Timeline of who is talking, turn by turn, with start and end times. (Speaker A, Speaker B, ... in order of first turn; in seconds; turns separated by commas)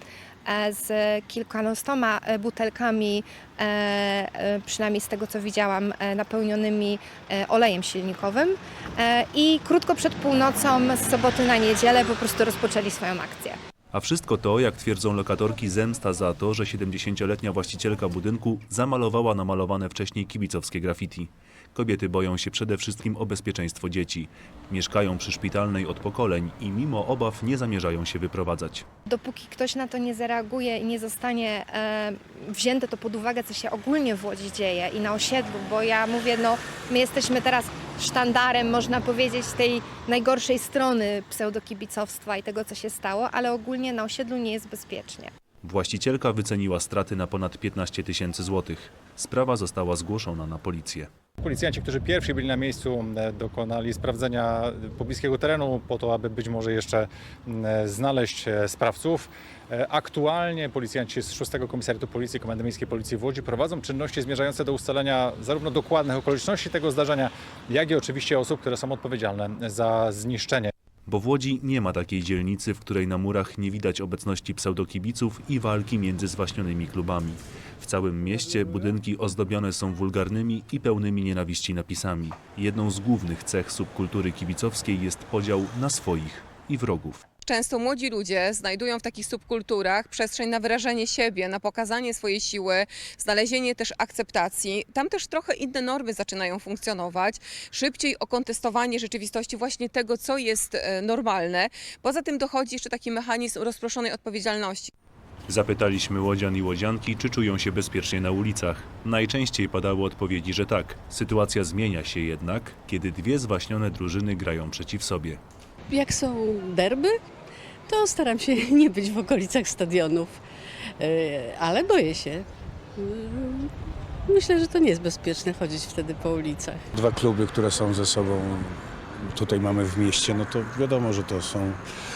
Speaker A: 0.5-13.6, Speaker B: 13.9-28.8, Speaker A: 29.1-45.3, Speaker B: 45.6-51.1, Speaker C: 51.4-70.7, Speaker B: 71.1-87.2, Speaker D: 87.4-104.9, Speaker B: 105.5-115.4, Speaker E: 115.9-117.2, Speaker E: 117.9-120.4, Speaker E: 121.0-123.7, Speaker E: 124.3-126.8, Speaker F: 126.9-131.8